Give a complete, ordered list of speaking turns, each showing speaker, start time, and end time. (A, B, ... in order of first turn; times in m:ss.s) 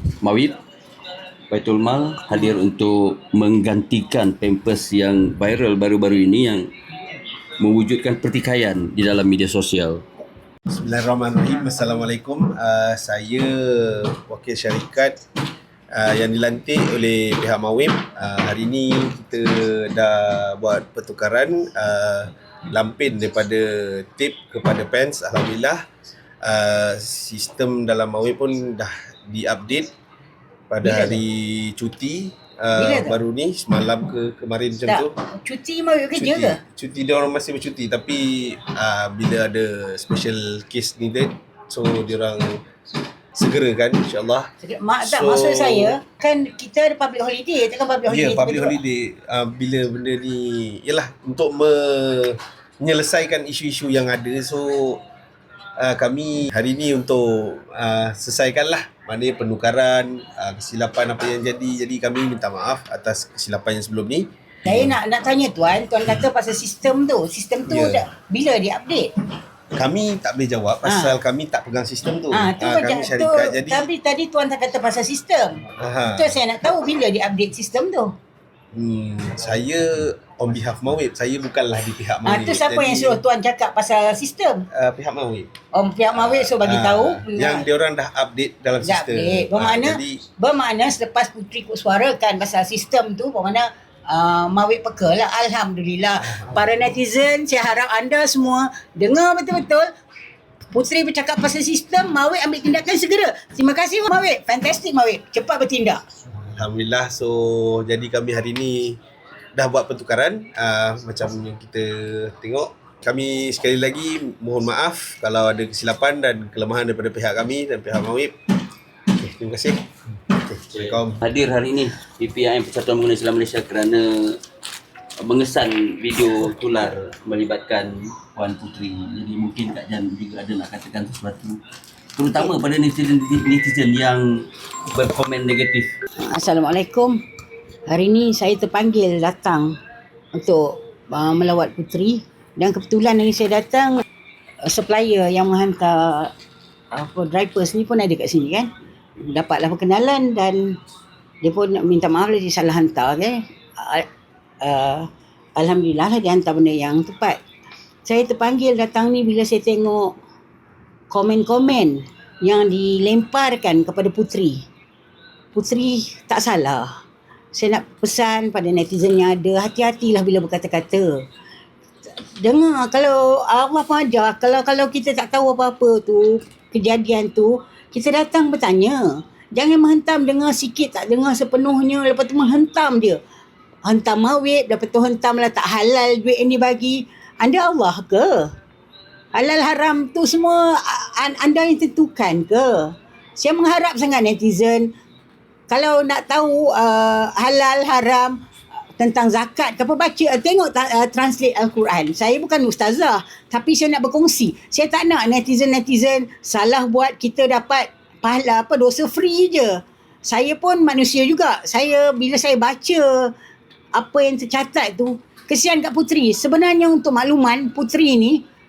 0:00.2-0:00.6 A
0:01.5-0:06.7 A
0:07.6-0:10.0 A
0:10.7-0:15.2 B
0:15.9-0:25.8 B
0:26.4-0:29.9 B
0:30.7-0:35.1 B
0:30.8-0:31.2 C
0:32.8-0:33.2 C
0:34.9-0:36.6 C
0:36.2-0:42.6 B
0:43.3-0:44.5 B
0:44.6-0:48.8 C
0:45.0-0:46.0 B
0:48.1-0:55.0 B
0:55.8-1:04.7 B
1:04.6-1:09.1 C
1:07.7-1:08.0 B
1:09.7-1:13.9 B
1:10.8-1:11.1 C
1:12.3-1:15.6 C
1:15.8-1:16.3 B
1:16.1-1:18.1 C
1:18.7-1:23.2 B
1:22.2-1:24.6 C
1:24.7-1:25.5 B
1:25.7-1:27.7 C
1:26.1-1:30.2 B
1:28.8-1:39.9 C
1:40.7-1:46.0 C
1:46.6-1:49.0 B
1:49.6-1:58.3 B
1:59.1-2:01.2 B
2:00.7-2:04.4 A
2:05.2-2:11.6 A
2:12.2-2:15.9 A
2:16.2-2:17.2 C
2:17.9-2:19.8 C
2:20.3-2:24.0 C
2:24.6-2:26.3 C
2:26.9-2:28.7 C
2:29.2-2:30.8 C
2:31.4-2:34.1 C
2:34.6-2:37.4 C
2:38.0-2:40.2 C
2:41.1-2:44.6 C
2:45.5-2:46.9 C
2:47.5-2:51.2 C
2:52.4-3:03.2 C
3:03.8-3:08.5 C
3:09.3-3:14.9 C
3:15.7-3:18.4 C
3:19.0-3:33.3 C
3:34.0-3:38.4 C